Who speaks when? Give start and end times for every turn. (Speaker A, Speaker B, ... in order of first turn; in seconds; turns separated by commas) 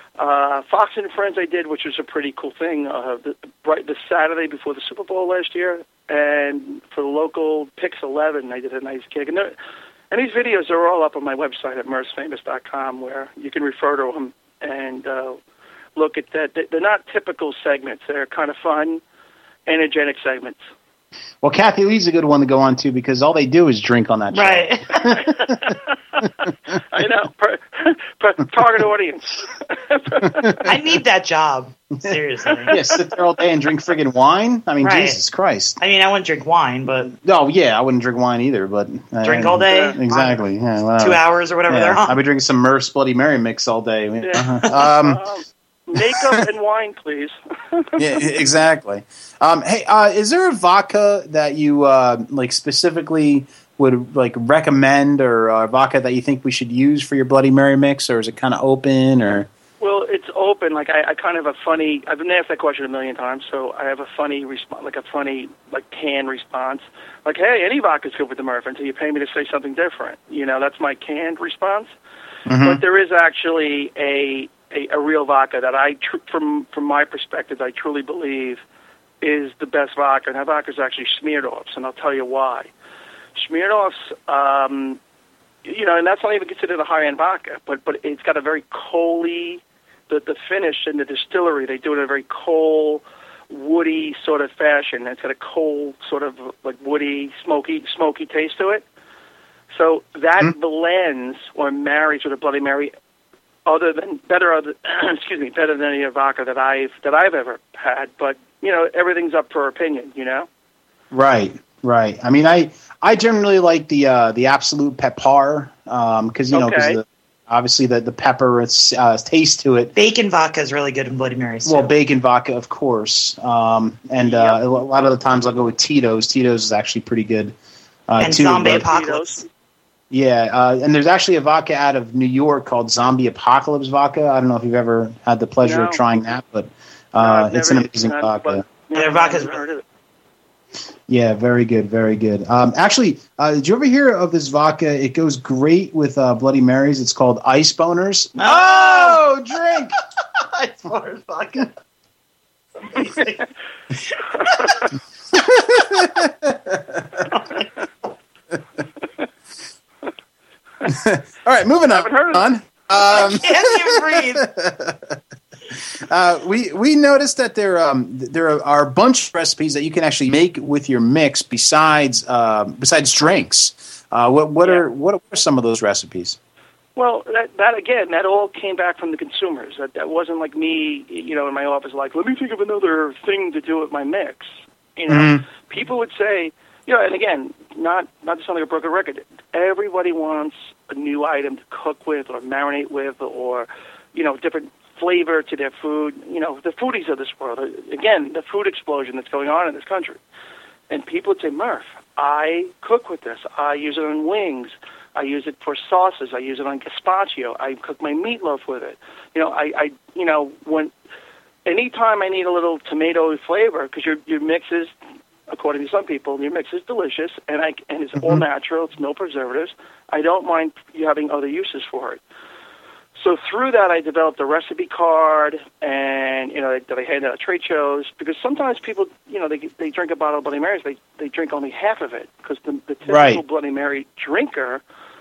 Speaker A: 0.2-9.5, Speaker A: 10.1-15.4, Speaker A: 16.0-19.0, Speaker A: 19.7-20.6, Speaker B: 21.4-25.7, Speaker C: 24.3-25.0, Speaker A: 25.2-26.3, Speaker A: 26.9-30.7, Speaker B: 30.2-30.7, Speaker C: 30.6-32.8, Speaker A: 32.5-33.1, Speaker B: 32.7-35.8, Speaker C: 34.8-35.2, Speaker C: 35.8-37.2, Speaker B: 37.2-45.2, Speaker C: 39.2-40.4, Speaker A: 39.6-40.0, Speaker C: 41.0-42.2, Speaker A: 44.2-48.4, Speaker B: 48.0-59.5, Speaker A: 59.8-71.9, Speaker B: 72.5-72.8, Speaker A: 72.6-78.6, Speaker A: 79.2-82.7, Speaker A: 83.4-85.0, Speaker A: 85.7-98.8, Speaker A: 99.7-102.9, Speaker A: 103.7-110.5, Speaker B: 111.1-119.9, Speaker A: 116.5-117.0, Speaker C: 120.0-121.9, Speaker B: 121.7-127.5, Speaker A: 124.3-124.6, Speaker B: 128.1-128.9, Speaker C: 128.2-129.4, Speaker A: 128.4-129.5, Speaker B: 130.1-138.6, Speaker A: 135.6-136.0, Speaker A: 137.2-139.8, Speaker C: 138.9-139.7, Speaker B: 141.1-149.9, Speaker C: 148.4-149.2, Speaker C: 150.5-151.7, Speaker C: 152.9-153.4, Speaker A: 154.5-154.8, Speaker B: 155.3-157.1, Speaker C: 157.3-157.7, Speaker B: 160.9-165.2, Speaker A: 161.9-162.5, Speaker C: 163.1-164.4, Speaker B: 166.1-176.4, Speaker A: 177.0-200.2, Speaker B: 185.1-185.4, Speaker A: 200.9-210.9, Speaker A: 211.7-214.9, Speaker A: 215.5-222.2, Speaker A: 223.2-234.8, Speaker B: 233.1-233.4